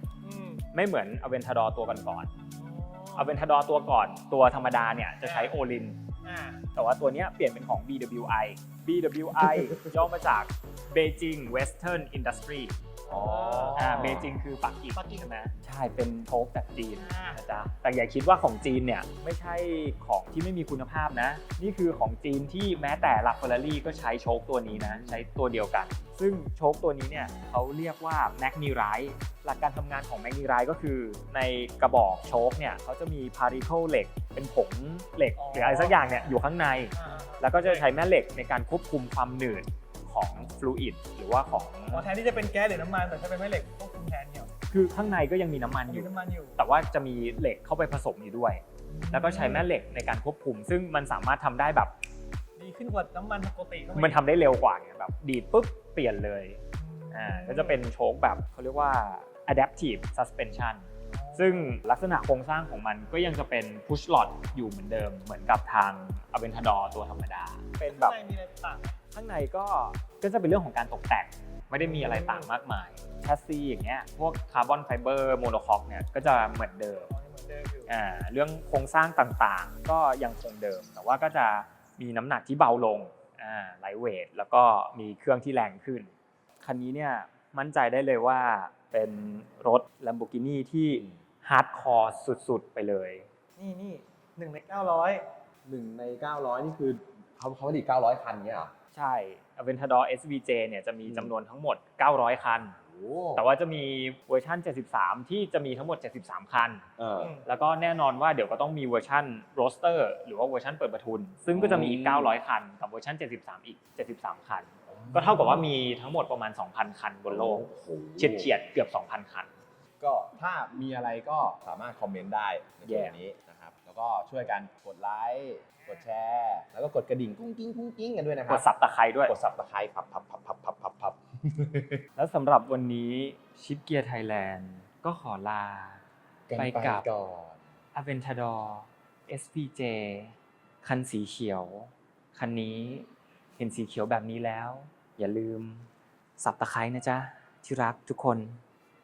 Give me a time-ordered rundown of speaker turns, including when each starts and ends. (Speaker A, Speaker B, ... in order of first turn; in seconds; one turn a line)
Speaker A: 0.2-0.6
Speaker B: 0.7-2.3
Speaker A: 2.6-3.4
Speaker B: 3.1-6.0
Speaker A: 5.2-5.5
Speaker A: 6.2-6.6
Speaker B: 6.7-12.8
Speaker C: 9.4-10.1
Speaker C: 13.1-14.3
Speaker A: 13.1-14.2
Speaker B: 13.8-42.1
Speaker A: 14.9-15.3
Speaker A: 17.0-17.4
Speaker C: 24.7-25.2
Speaker A: 35.4-36.1
Speaker A: 36.9-37.8
Speaker A: 41.9-44.5
Speaker B: 44.7-51.9
Speaker A: 45.9-46.6
Speaker A: 48.9-49.6
Speaker C: 49.4-49.7
Speaker A: 52.6-54.2
Speaker B: 53.9-56.6
Speaker A: 56.8-57.8
Speaker B: 57.1-68.2
Speaker A: 61.1-61.8
Speaker A: 67.8-69.0
Speaker B: 69.1-77.1
Speaker A: 71.8-72.5
Speaker A: 77.1-77.9
Speaker B: 77.9-93.3
Speaker A: 93.6-95.3
Speaker C: 95.6-98.7
Speaker B: 98.9-102.8
Speaker C: 101.0-101.3
Speaker C: 102.9-103.5
Speaker B: 103.3-106.8
Speaker C: 107.0-107.4
Speaker A: 107.2-107.5
Speaker B: 107.4-119.5
Speaker C: 111.5-112.3
Speaker C: 114.9-115.7
Speaker C: 117.3-118.5
Speaker C: 120.0-128.7
Speaker B: 122.8-123.1
Speaker B: 128.5-129.3
Speaker C: 129.2-132.0
Speaker B: 132.2-136.0
Speaker C: 136.5-137.6
Speaker B: 136.5-137.1
Speaker B: 137.9-148.6